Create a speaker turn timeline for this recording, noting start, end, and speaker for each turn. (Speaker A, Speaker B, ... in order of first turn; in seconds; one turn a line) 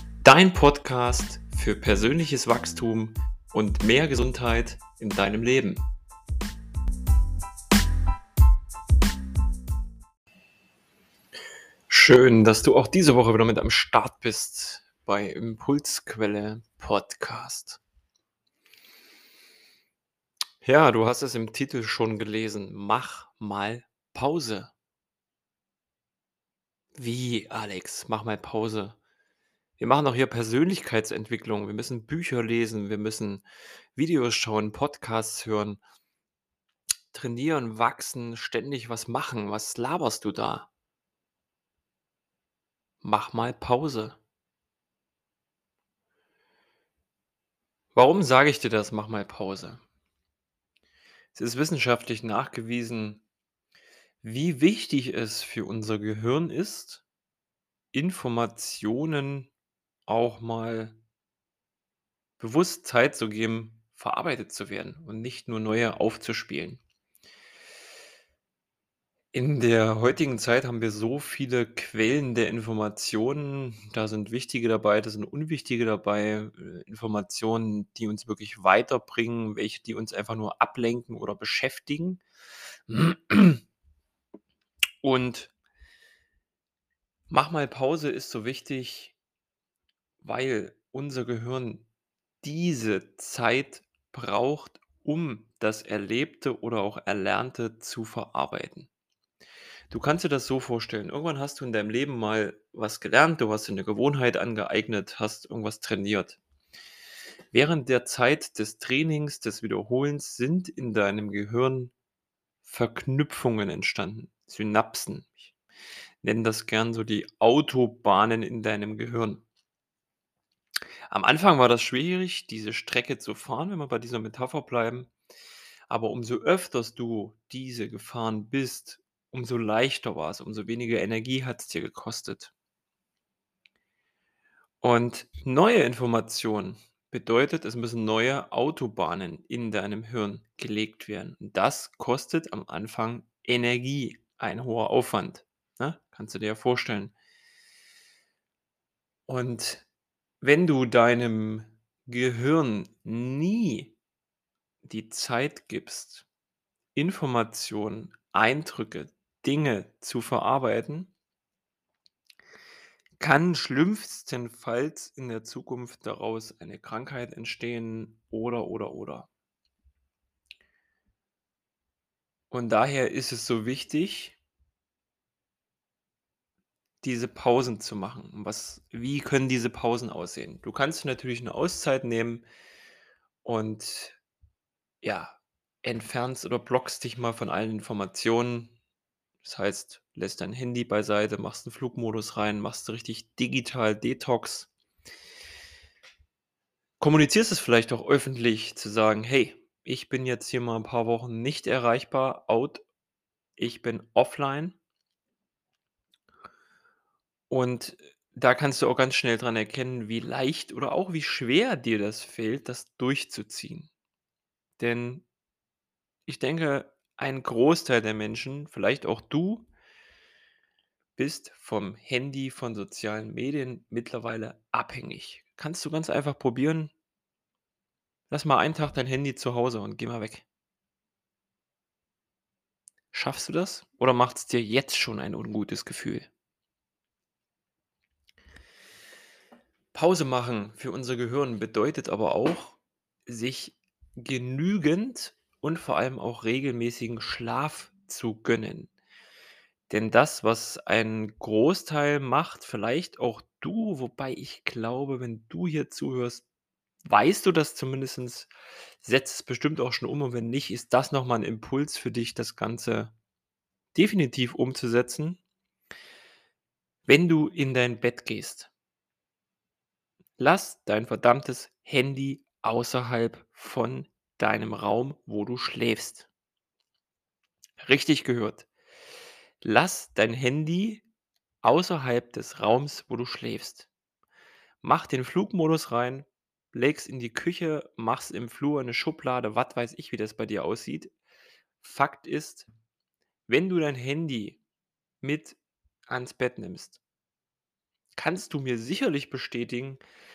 Speaker A: 0.2-5.8
Speaker A: 11.9-17.8
Speaker A: 20.6-24.7
Speaker A: 26.9-29.0
Speaker A: 29.8-35.8
Speaker A: 37.1-40.7
Speaker A: 43.0-44.2
Speaker A: 47.9-49.8
Speaker A: 51.3-53.2
Speaker A: 54.2-57.0
Speaker A: 57.9-59.5
Speaker A: 60.1-61.0
Speaker A: 62.4-66.8
Speaker A: 69.3-82.2
Speaker A: 82.9-83.6
Speaker A: 85.0-85.5
Speaker A: 87.3-89.1
Speaker A: 90.2-91.9
Speaker A: 92.4-98.9
Speaker A: 99.9-106.4
Speaker A: 107.5-111.9
Speaker A: 112.6-115.5
Speaker A: 116.2-119.4
Speaker A: 121.1-125.1
Speaker A: 125.9-132.5
Speaker A: 134.8-147.1
Speaker A: 149.3-149.8
Speaker A: 150.4-153.9
Speaker A: 154.8-156.2
Speaker A: 156.9-161.1
Speaker A: 163.2-169.3
Speaker A: 172.5-174.4
Speaker A: 177.0-182.4
Speaker A: 183.4-184.2
Speaker A: 185.0-188.7
Speaker A: 189.4-194.7
Speaker A: 197.0-202.8
Speaker A: 203.6-204.8
Speaker A: 207.5-213.9
Speaker A: 214.8-215.2
Speaker A: 216.3-219.7
Speaker A: 221.2-226.9
Speaker A: 228.3-230.4
Speaker A: 233.1-236.3
Speaker A: 239.9-248.9
Speaker A: 249.9-256.4
Speaker A: 257.0-258.5
Speaker A: 259.0-263.1
Speaker A: 263.9-265.4
Speaker A: 267.1-268.7
Speaker A: 270.4-276.3
Speaker A: 277.8-278.7
Speaker A: 279.6-281.0
Speaker A: 281.6-283.9
Speaker A: 284.8-291.1
Speaker A: 291.8-292.7
Speaker A: 293.5-294.6
Speaker A: 295.2-297.0
Speaker A: 298.2-300.0